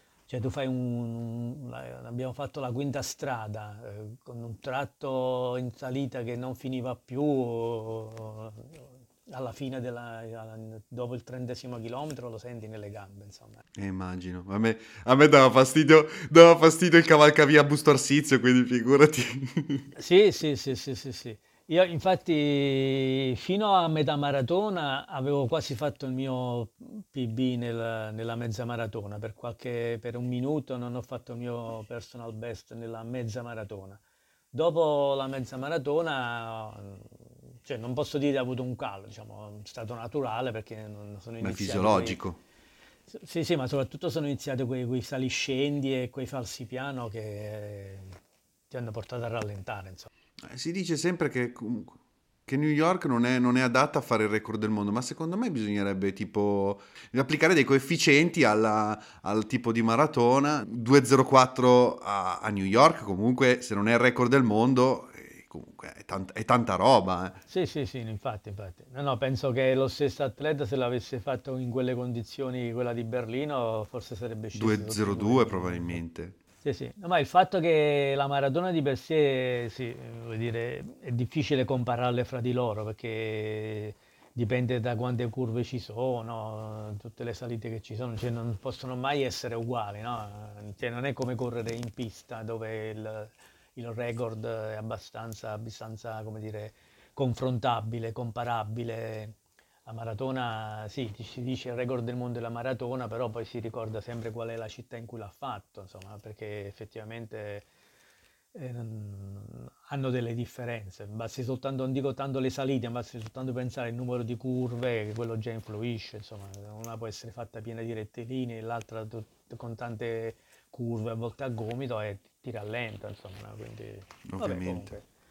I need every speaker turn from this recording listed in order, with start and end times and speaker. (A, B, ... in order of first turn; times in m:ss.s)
0:00.3-0:13.6 A
0:13.8-0:19.9 B
0:20.0-0:34.0 A
0:34.5-0:42.2 A
0:41.4-0:42.4 B
0:43.1-0:48.2 A
0:48.7-0:50.1 A
0:50.4-1:07.4 B
1:07.5-1:16.0 A
1:14.6-1:16.4 B
1:16.6-1:47.7 A
1:48.5-2:05.0 A
2:04.3-2:04.9 B